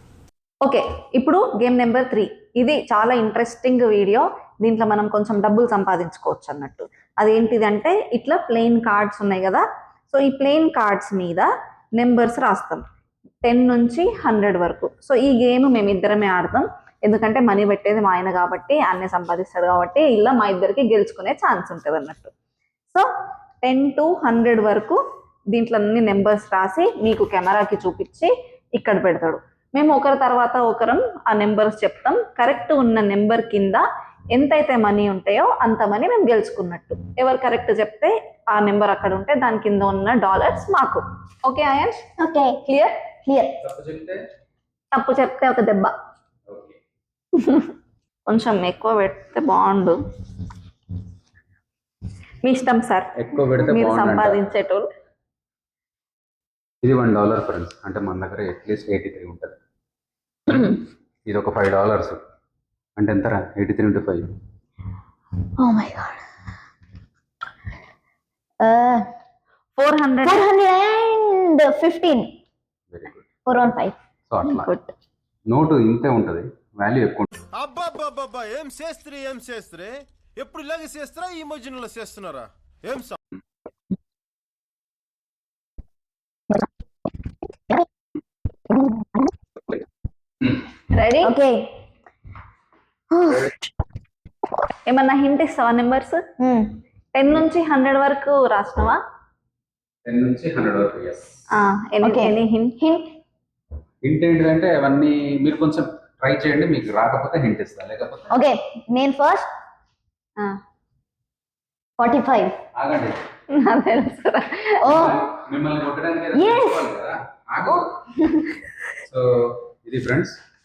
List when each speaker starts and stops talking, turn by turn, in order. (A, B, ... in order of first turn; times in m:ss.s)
0:00.6-0:12.8 A
0:13.4-0:22.3 A
0:23.6-0:25.0 A
0:25.5-0:42.0 A
0:42.2-0:42.6 B
0:42.6-0:42.9 A
0:43.2-0:43.6 B
0:43.6-0:44.2 C
0:44.9-0:45.9 A
0:46.5-0:46.8 C
0:48.3-0:50.0 A
0:52.4-0:53.1 A
0:53.1-0:54.4 C
0:53.7-0:54.9 A
0:56.8-0:59.6 C
1:00.5-1:02.2 C
1:03.0-1:04.3 C
1:05.6-1:06.2 B
1:08.6-1:09.0 B
1:09.8-1:10.4 A
1:10.2-1:12.3 B
1:12.9-1:13.2 C
1:13.4-1:14.0 B
1:14.3-1:14.7 C
1:14.6-1:14.8 A
1:15.5-1:17.3 C
1:17.5-1:23.2 D
1:30.9-1:31.3 A
1:31.2-1:31.7 B
1:33.1-1:33.5 B
1:34.9-1:36.2 A
1:36.4-1:36.8 B
1:37.1-1:39.0 A
1:40.0-1:41.3 C
1:41.5-1:42.8 A
1:42.0-1:43.1 B
1:44.0-1:48.4 C
1:48.3-1:49.5 B
1:52.0-1:52.6 B
1:52.7-1:53.2 C
1:53.5-1:54.8 A
1:54.8-1:55.2 B
1:54.8-1:57.9 C
1:56.3-1:56.8 B
1:59.1-2:00.4 C